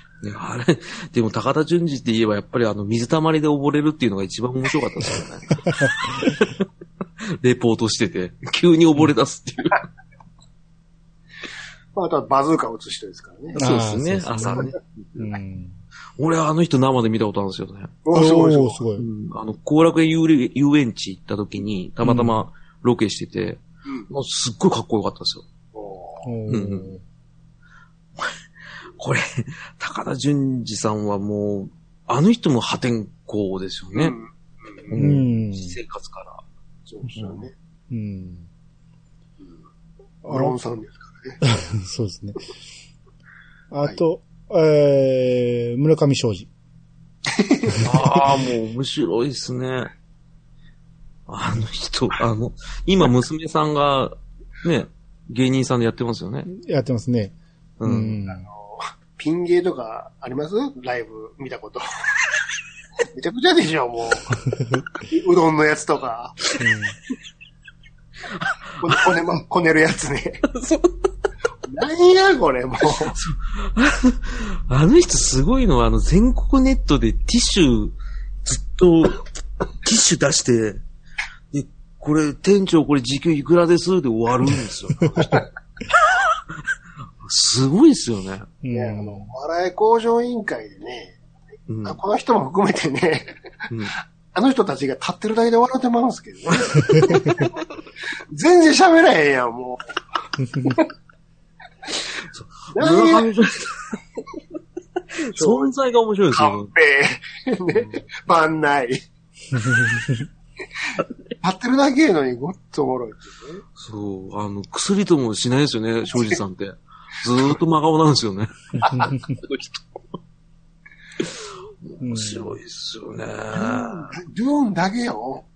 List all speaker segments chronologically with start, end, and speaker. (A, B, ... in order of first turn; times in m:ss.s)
0:00.2-0:06.7 A
0:05.7-0:06.3 B
0:07.2-0:09.8 A
0:12.0-0:13.6 C
0:13.6-0:14.8 A
0:13.6-0:15.8 B
0:16.2-0:18.0 A
0:18.0-0:18.8 C
0:18.1-0:19.1 B
0:19.0-0:25.4 A
0:22.0-0:22.4 B
0:25.7-0:26.3 C
0:26.2-0:27.0 B
0:26.5-0:26.9 A
0:29.0-0:34.2 A
0:33.9-0:34.3 C
0:34.9-0:36.4 A
0:34.9-0:35.8 B
0:36.9-0:37.5 C
0:37.9-0:38.5 B
0:40.2-0:40.6 B
0:40.3-0:41.4 C
0:41.4-0:42.4 B
0:43.7-0:46.5 B
0:47.3-0:47.9 C
0:47.8-0:49.9 A
0:51.3-0:56.5 A
0:56.5-0:58.5 B
0:57.8-0:58.2 A
0:58.3-1:01.8 C
1:03.1-1:04.3 C
1:05.0-1:06.4 C
1:06.6-1:07.0 B
1:08.3-1:09.1 A
1:08.8-1:10.4 C
1:10.5-1:10.9 A
1:11.7-1:13.2 C
1:13.1-1:19.2 A
1:19.8-1:20.8 A
1:21.5-1:25.4 A
1:25.0-1:25.4 C
1:27.2-1:28.5 A
1:28.6-1:29.3 B
1:28.7-1:31.2 C
1:31.7-1:32.0 A
1:31.8-1:33.3 C
1:34.3-1:37.5 C
1:38.3-1:39.8 C
1:40.6-1:40.9 C
1:42.3-1:44.0 A
1:42.7-1:43.3 C
1:45.3-1:46.7 A
1:45.4-1:45.7 C
1:46.3-1:49.0 C
1:49.6-1:50.2 B
1:51.4-1:53.6 C
1:53.8-1:59.8 A
1:58.8-1:59.3 B
2:01.2-2:04.2 A
2:02.0-2:02.6 B
2:03.5-2:05.5 C